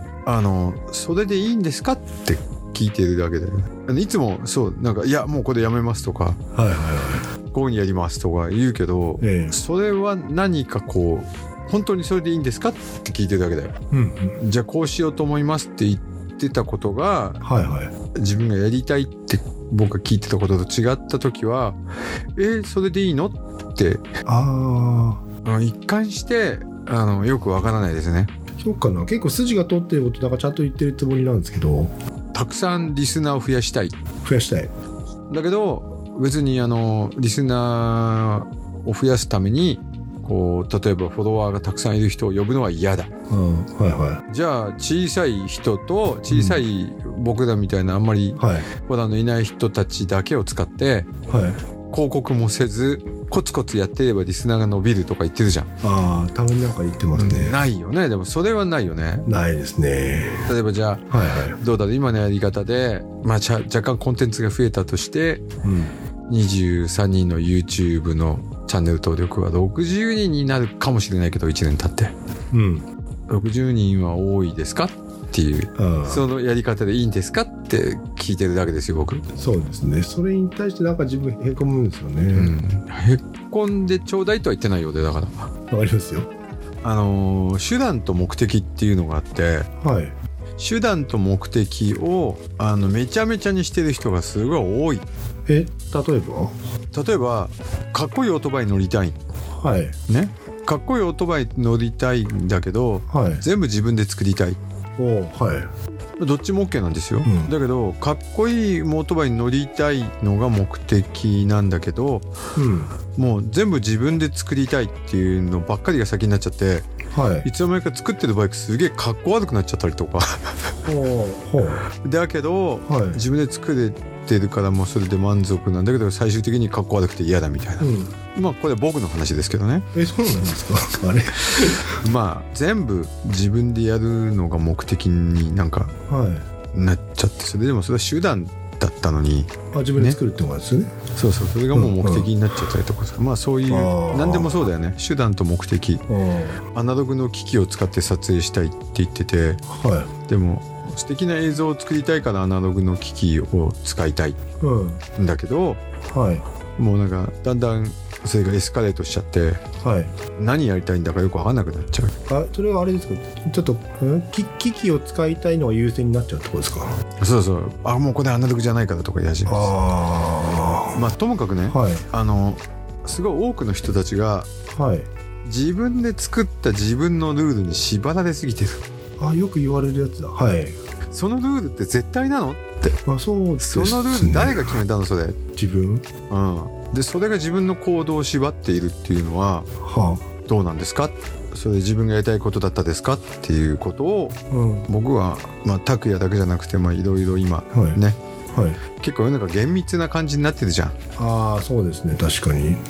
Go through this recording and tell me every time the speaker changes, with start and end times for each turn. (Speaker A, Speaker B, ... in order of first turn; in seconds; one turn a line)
Speaker A: 0.2-6.4
Speaker B: 6.5-7.2
Speaker A: 7.5-13.7
Speaker B: 9.2-9.6
Speaker B: 13.9-14.4
Speaker A: 14.4-17.4
Speaker B: 17.4-17.9
Speaker A: 18.1-21.8
Speaker A: 22.4-24.0
Speaker B: 24.2-25.2
Speaker A: 25.4-28.3
Speaker B: 28.6-31.9
Speaker A: 32.3-33.9
Speaker B: 34.2-34.7
Speaker A: 35.3-43.1
Speaker B: 43.3-44.2
Speaker A: 44.3-51.1
Speaker B: 46.3-46.6
Speaker B: 48.4-48.7
Speaker B: 51.3-51.6
Speaker A: 51.9-55.7
Speaker B: 55.8-57.6
Speaker A: 57.1-59.3
Speaker B: 59.3-60.5
Speaker A: 60.5-65.4
Speaker B: 61.1-61.6
Speaker B: 65.6-65.9
Speaker A: 66.3-72.1
Speaker B: 72.5-72.8
Speaker A: 73.3-79.2
Speaker B: 75.8-76.2
Speaker B: 79.4-82.5
Speaker A: 82.3-85.3
Speaker B: 85.7-86.3
Speaker A: 86.8-89.7
Speaker B: 89.8-90.2
Speaker A: 90.6-95.0
Speaker B: 95.5-96.5
Speaker A: 96.9-99.2
Speaker B: 99.6-100.0
Speaker A: 100.1-104.6
Speaker B: 103.1-103.4
Speaker B: 105.0-105.7
Speaker A: 106.2-112.2
Speaker B: 107.2-107.5
Speaker B: 112.5-112.9
Speaker A: 113.1-116.9
Speaker B: 117.1-117.5
Speaker A: 117.4-120.5
Speaker B: 120.8-121.8
Speaker A: 122.0-129.9
Speaker B: 122.9-123.2
Speaker B: 127.8-128.1
Speaker B: 129.9-131.9
Speaker A: 131.8-135.9
Speaker B: 136.1-136.4
Speaker A: 136.7-140.2
Speaker B: 139.7-140.9
Speaker A: 141.1-146.0
Speaker B: 141.7-142.3
Speaker B: 143.7-144.7
Speaker B: 146.1-146.6
Speaker A: 146.7-149.6
Speaker B: 149.7-150.1
Speaker A: 150.3-154.4
Speaker B: 154.6-155.0
Speaker A: 155.2-155.8
Speaker B: 156.1-156.4
Speaker A: 156.8-159.6
Speaker B: 159.8-160.1
Speaker A: 160.3-162.1
Speaker B: 162.3-166.9
Speaker A: 167.2-169.7
Speaker B: 169.4-171.0
Speaker A: 170.9-174.5
Speaker B: 171.7-172.0
Speaker B: 174.7-175.1
Speaker A: 175.4-178.8
Speaker B: 179.2-180.8
Speaker A: 181.1-183.0
Speaker B: 183.1-184.8
Speaker A: 183.6-185.4
Speaker B: 185.6-186.0
Speaker A: 186.3-189.7
Speaker B: 189.8-190.2
Speaker A: 190.4-194.3
Speaker B: 194.5-194.9
Speaker A: 194.9-198.2
Speaker B: 197.7-198.0
Speaker B: 198.5-198.8
Speaker A: 199.0-200.9
Speaker B: 201.2-202.8